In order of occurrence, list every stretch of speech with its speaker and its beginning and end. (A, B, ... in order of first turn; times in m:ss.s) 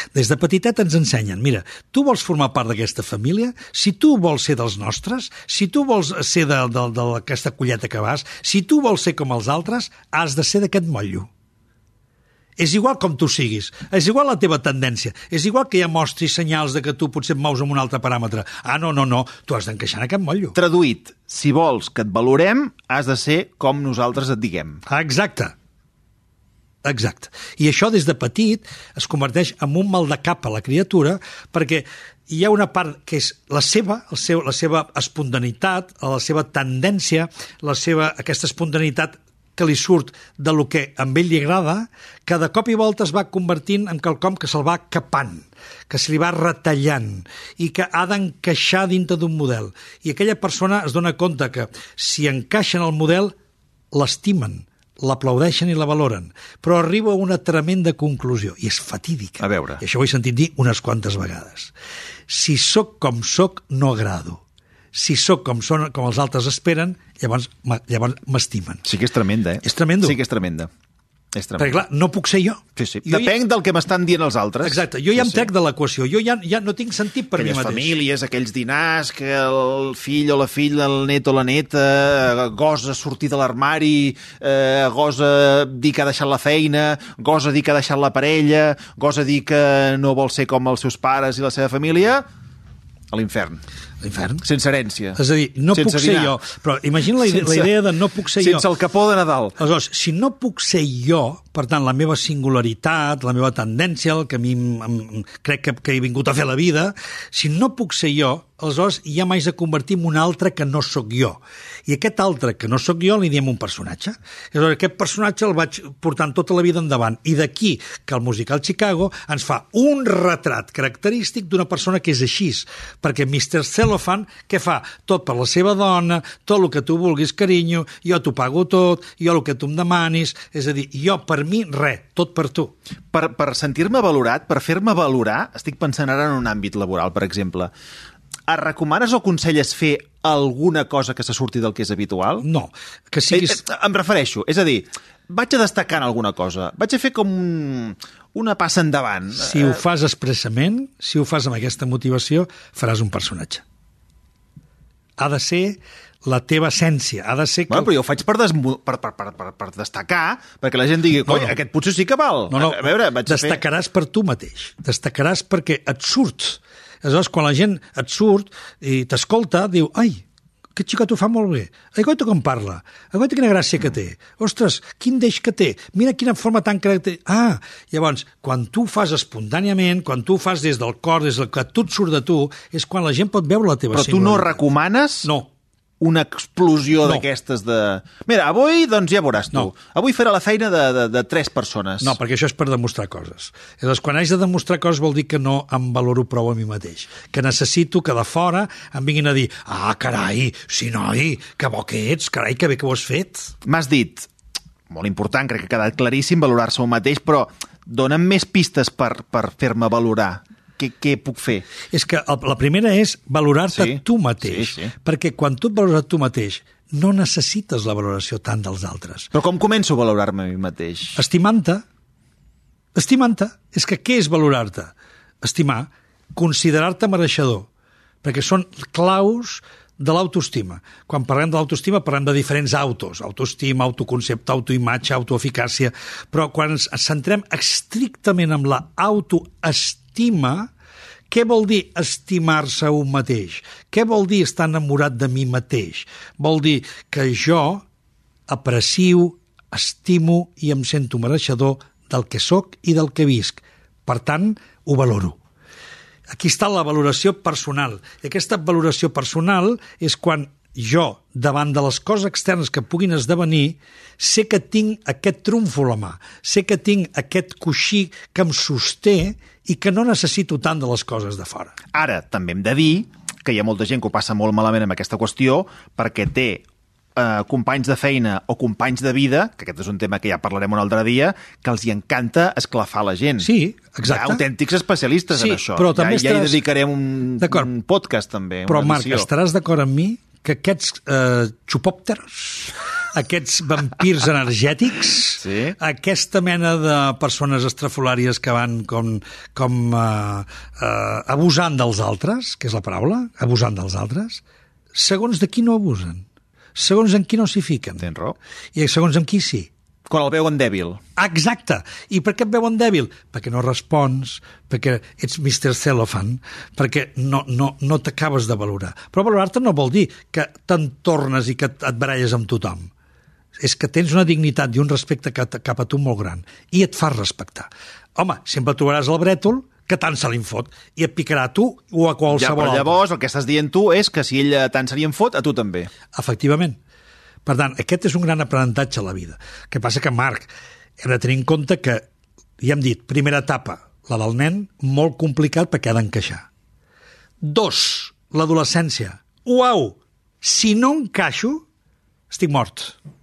0:00.1-0:11.3 A
0:12.6-0:20.6 A
0:20.6-0:24.8 B
0:24.9-0:25.6 A
0:26.8-0:53.4 A
0:53.9-1:01.7 A
0:59.4-0:59.8 B
1:02.3-1:04.4 A
1:04.9-1:08.8 A
1:08.8-1:10.7 B
1:09.6-1:10.2 A
1:11.3-1:11.8 B
1:11.6-1:13.3 A
1:12.8-1:15.5 B
1:14.6-1:18.0 A
1:17.4-1:32.3 B
1:33.1-1:33.6 B
1:34.0-1:34.4 A
1:34.4-1:35.2 B
1:35.2-1:38.7 A
1:35.7-1:36.4 B
1:37.3-1:37.7 B
1:38.4-1:39.6 B
1:39.6-2:12.8 A
2:13.1-2:17.7 B
2:18.5-2:22.4 B
2:22.4-2:23.6 A
2:23.3-2:29.8 B
2:29.4-2:33.6 A
2:35.2-2:37.9 A
2:37.7-2:43.6 B
2:41.3-2:41.6 A
2:42.5-2:50.2 A
2:50.8-3:04.6 A
3:03.9-3:05.3 B
3:05.2-3:05.5 A
3:06.0-3:12.2 B
3:12.0-3:23.6 A
3:23.6-3:24.3 B
3:24.9-3:31.7 B
3:31.9-3:39.3 A
3:33.7-3:34.9 B
3:39.3-3:41.2 B
3:41.2-3:41.8 A
3:43.0-3:47.7 A
3:48.2-4:00.7 A
4:01.3-4:07.8 A
4:08.5-4:15.4 A
4:16.3-4:31.8 A
4:31.9-4:36.6 B
4:37.2-4:43.5 B
4:43.4-4:44.4 A
4:44.0-4:49.3 B
4:45.3-4:46.6 A
4:47.4-4:47.7 A
4:48.7-5:04.4 A
4:55.4-4:55.8 B
5:04.9-5:06.2 A
5:06.8-5:08.1 A
5:08.0-5:08.4 B
5:08.8-5:09.7 A
5:10.1-5:11.0 B
5:11.2-5:22.9 A
5:23.6-5:33.0 A
5:32.3-5:35.9 B
5:36.1-5:36.8 A
5:37.5-5:42.0 A
5:42.6-5:46.5 A
5:47.4-5:51.6 A
5:52.3-5:53.0 A